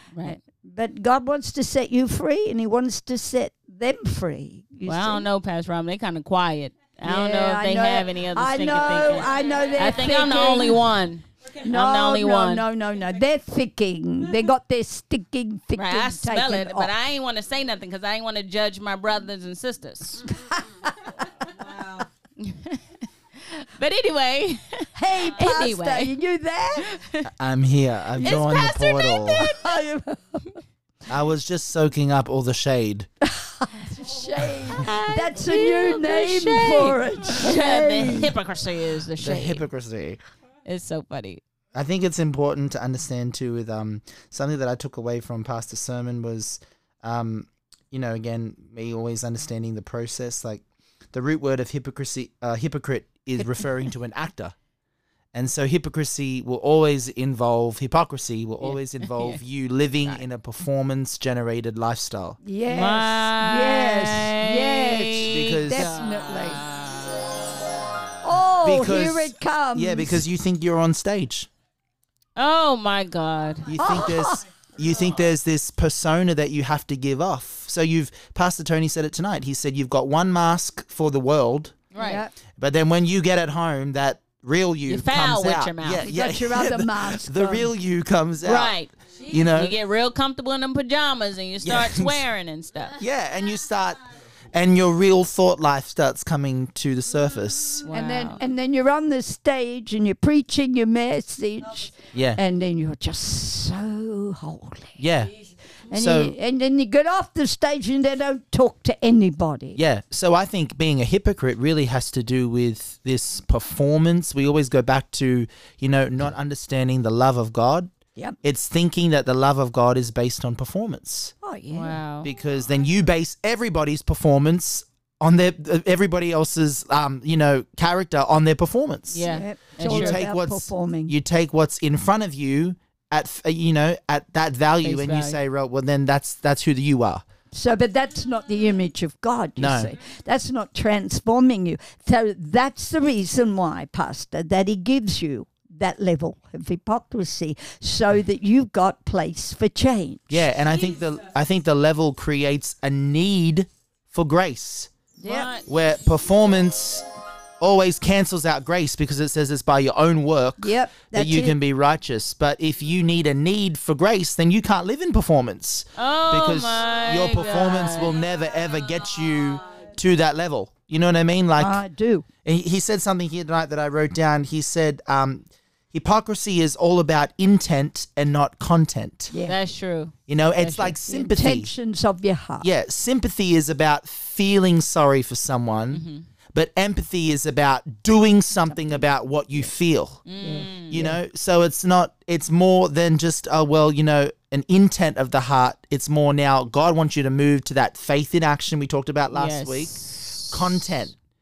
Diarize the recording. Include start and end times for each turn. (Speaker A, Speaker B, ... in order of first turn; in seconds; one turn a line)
Speaker A: 0.1-0.4
Speaker B: 0.2-5.2
Speaker A: 4.8-12.7
Speaker B: 7.0-10.8
Speaker B: 11.6-16.9
Speaker A: 15.7-20.3
Speaker B: 20.3-20.9
Speaker A: 22.4-26.2
Speaker B: 24.9-26.9
Speaker A: 26.8-27.3
Speaker C: 27.2-29.4
Speaker B: 28.2-28.6
Speaker A: 28.2-29.5
Speaker B: 29.3-30.6
Speaker C: 31.1-33.1
Speaker B: 33.2-38.3
Speaker A: 34.7-39.6
Speaker C: 39.2-40.2
Speaker A: 40.6-41.4
Speaker C: 41.7-54.5
Speaker C: 55.3-62.4
Speaker A: 58.6-59.4
Speaker B: 62.4-66.6
Speaker A: 62.7-67.2
Speaker C: 65.3-65.9
Speaker B: 68.2-70.2
Speaker C: 68.6-71.5
Speaker A: 72.4-73.8
Speaker C: 73.7-81.8
Speaker B: 73.8-74.4
Speaker A: 81.9-82.2
Speaker B: 82.0-82.3
Speaker C: 82.6-88.8
Speaker A: 84.8-86.1
Speaker B: 86.0-87.7
Speaker A: 88.4-93.0
Speaker C: 89.3-89.7
Speaker C: 91.6-92.2
Speaker C: 93.0-97.8
Speaker A: 97.8-98.4
Speaker B: 97.9-105.0
Speaker C: 102.1-102.4
Speaker C: 105.0-105.3
Speaker B: 105.9-109.8
Speaker C: 105.9-106.3
Speaker C: 109.7-117.9
Speaker C: 118.4-121.3
Speaker B: 121.4-122.0
Speaker A: 121.7-122.3
Speaker C: 122.2-137.2
Speaker A: 129.1-130.2
Speaker B: 129.2-131.1
Speaker A: 134.8-135.4
Speaker B: 137.5-150.5
Speaker C: 139.6-139.9
Speaker C: 150.3-154.9
Speaker B: 155.2-155.5
Speaker A: 155.2-155.7
Speaker C: 155.7-157.1
Speaker C: 157.6-171.8
Speaker B: 160.6-161.6
Speaker A: 165.9-168.1
Speaker B: 171.6-172.2
Speaker C: 172.4-179.3
Speaker B: 179.3-179.6
Speaker A: 179.4-181.0
Speaker C: 180.3-181.7
Speaker B: 181.1-182.7
Speaker C: 182.6-190.2
Speaker A: 185.9-186.2
Speaker B: 188.7-189.0
Speaker A: 190.2-191.0
Speaker B: 190.4-191.2
Speaker C: 190.9-201.1
Speaker A: 199.3-200.9